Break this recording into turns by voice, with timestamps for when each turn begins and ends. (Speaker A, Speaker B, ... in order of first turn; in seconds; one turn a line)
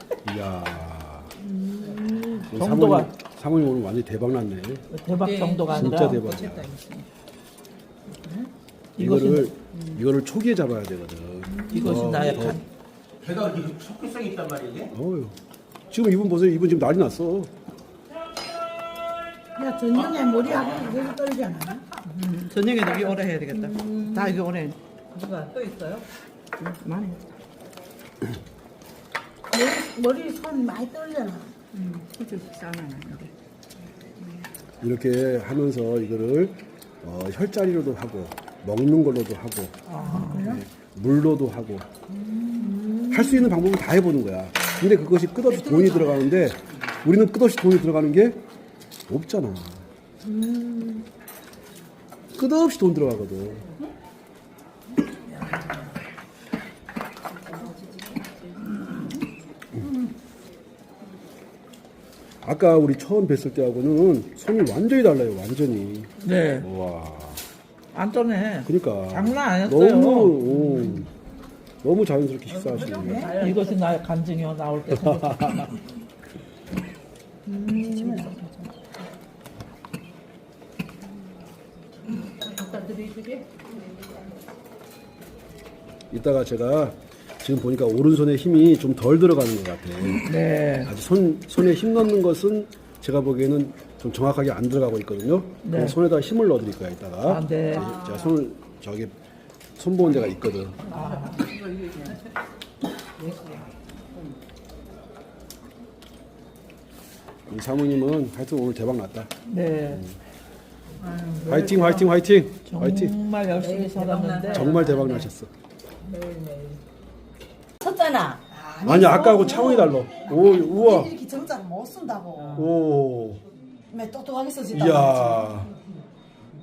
Speaker A: 0.2-1.3
Speaker B: 1.4-2.4
Speaker C: 2.4-3.1
Speaker A: 2.5-4.8
Speaker C: 4.9-6.2
Speaker B: 5.1-7.0
Speaker A: 5.7-6.7
Speaker C: 9.0-9.7
Speaker A: 9.0-12.6
Speaker C: 11.7-12.6
Speaker D: 11.7-12.6
Speaker D: 13.2-14.9
Speaker A: 14.9-15.3
Speaker A: 15.9-17.5
Speaker B: 19.6-22.0
Speaker D: 19.9-20.9
Speaker C: 22.0-24.8
Speaker B: 22.8-24.5
Speaker B: 25.1-26.0
Speaker C: 26.6-27.2
Speaker B: 29.5-31.5
Speaker C: 31.7-33.3
Speaker A: 34.8-41.9
Speaker C: 39.9-40.5
Speaker B: 40.0-40.6
Speaker B: 42.1-43.5
Speaker A: 43.1-48.4
Speaker B: 45.7-46.0
Speaker A: 49.1-49.8
Speaker B: 50.2-51.0
Speaker A: 52.3-53.7
Speaker A: 62.4-67.4
Speaker C: 66.2-66.7
Speaker C: 67.9-70.8
Speaker A: 68.7-71.1
Speaker A: 71.8-73.4
Speaker B: 72.6-73.9
Speaker C: 73.2-75.8
Speaker B: 77.5-78.6
Speaker C: 77.8-78.3
Speaker B: 82.4-83.4
Speaker A: 86.1-90.2
Speaker C: 90.2-90.9
Speaker A: 90.8-99.1
Speaker C: 95.6-96.0
Speaker C: 97.2-97.9
Speaker A: 99.8-100.9
Speaker C: 100.9-101.5
Speaker B: 100.9-102.2
Speaker B: 103.2-103.6
Speaker A: 107.5-109.3
Speaker C: 109.5-110.0
Speaker B: 111.0-112.1
Speaker A: 111.5-113.1
Speaker C: 112.7-115.3
Speaker B: 113.6-115.0
Speaker A: 114.5-115.5
Speaker B: 116.1-116.8
Speaker B: 117.8-122.7
Speaker A: 118.8-121.1
Speaker A: 122.5-123.4
Speaker B: 123.9-125.5
Speaker A: 124.7-125.7